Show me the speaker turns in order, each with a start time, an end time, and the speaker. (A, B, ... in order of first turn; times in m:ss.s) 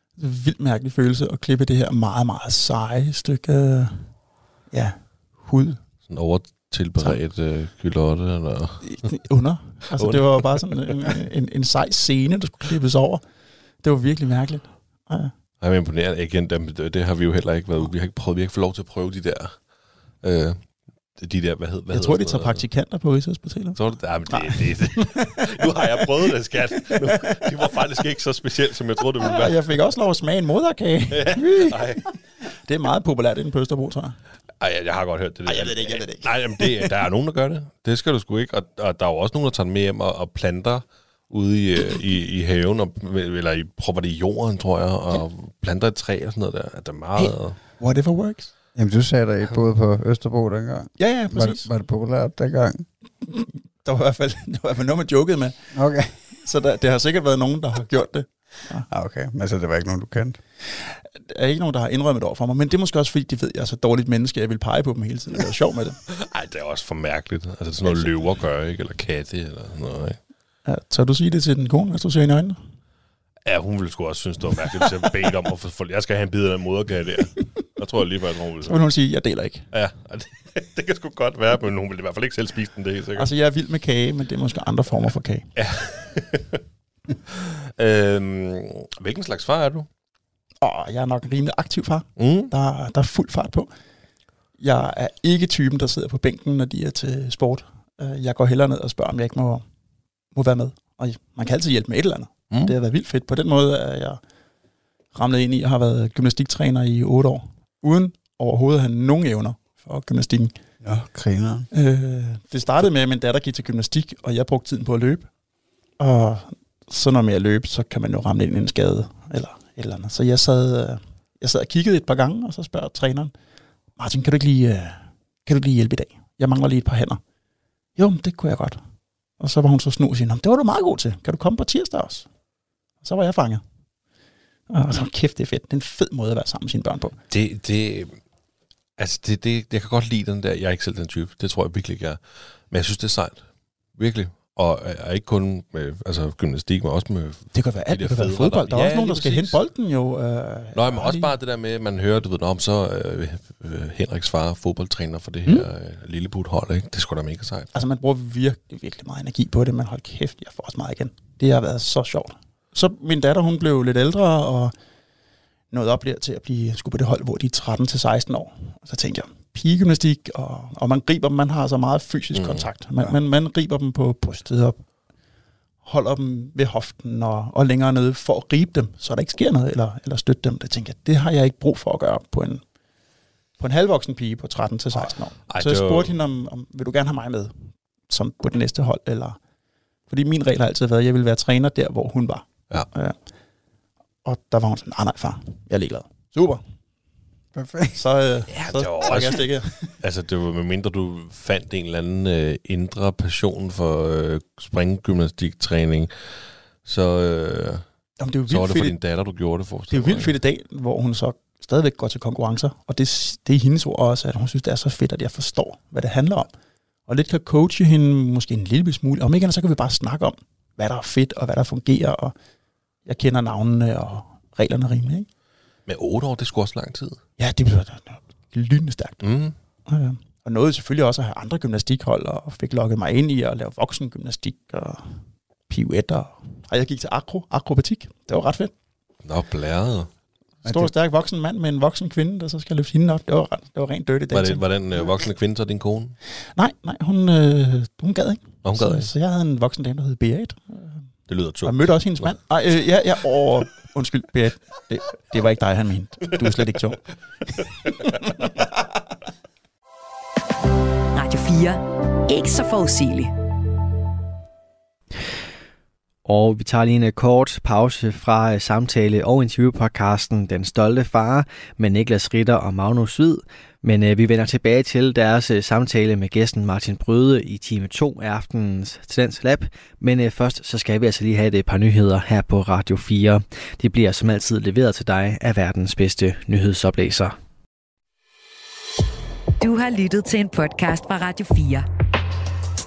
0:00.2-0:04.1 A
0:04.7-0:05.8 A
0:06.1-0:09.1 B
0:08.8-0:13.2 A
0:09.9-0:11.1 B
0:13.8-0:15.3 A
0:15.6-0:19.7 B
0:20.2-0:22.6 B
0:21.9-0:26.1 A
0:23.8-0:29.8 B
0:26.8-0:27.5 A
0:29.2-0:34.2 A
0:31.1-0:32.1 B
0:34.6-0:47.7 B
0:35.5-0:36.9 A
0:47.2-0:48.5 A
0:48.7-0:52.9 C
0:51.0-0:51.7 A
0:53.3-0:55.6 A
0:55.7-0:56.3 C
0:56.4-0:58.9 A
0:58.9-1:00.4 C
1:00.7-1:06.0 A
1:06.1-1:10.2 B
1:10.6-1:12.6 A
1:13.4-1:18.8 B
1:18.7-1:19.7 A
1:19.7-1:23.3 B
1:23.2-1:25.5 A
1:25.5-1:26.6 B
1:27.3-1:29.9 B
1:30.6-1:33.7 A
1:32.2-1:32.5 B
1:34.6-1:39.6 A
1:40.3-1:44.2 A
1:42.5-1:42.8 B
1:45.1-1:50.5 A
1:50.8-1:51.7 C
1:51.7-1:55.3 A
1:56.0-2:03.3 A
2:04.0-2:07.2 A
2:08.0-2:08.8 A
2:09.4-2:12.3 A
2:13.0-2:13.6 A
2:14.7-2:17.2 A
2:17.3-2:18.2 B
2:19.0-2:29.6 B
2:27.5-2:31.3 A
2:30.7-2:37.8 B
2:37.7-2:44.7 A
2:45.7-2:54.8 A
2:52.4-2:52.7 B
2:55.8-3:02.6 A
3:03.6-3:09.4 A
3:05.0-3:06.2 B
3:10.1-3:13.2 A
3:14.2-3:16.6 A
3:17.5-3:18.0 C
3:18.0-3:19.9 A
3:18.5-3:27.8 B
3:28.2-3:28.9 A
3:28.5-3:30.4 B
3:29.9-3:36.5 A
3:37.1-3:42.3 A
3:43.0-3:45.3 A
3:45.8-3:47.2 B
3:47.4-3:49.2 A
3:49.2-3:49.6 B
3:49.9-3:58.7 A
3:59.2-4:00.1 B
4:00.6-4:05.1 A
4:00.6-4:00.9 C
4:04.3-4:06.2 B
4:06.5-4:11.0 A
4:08.6-4:09.1 B
4:11.3-4:12.4 B
4:11.6-4:18.7 A
4:21.1-4:23.3 D
4:26.2-4:47.4 E
4:49.6-4:51.8 D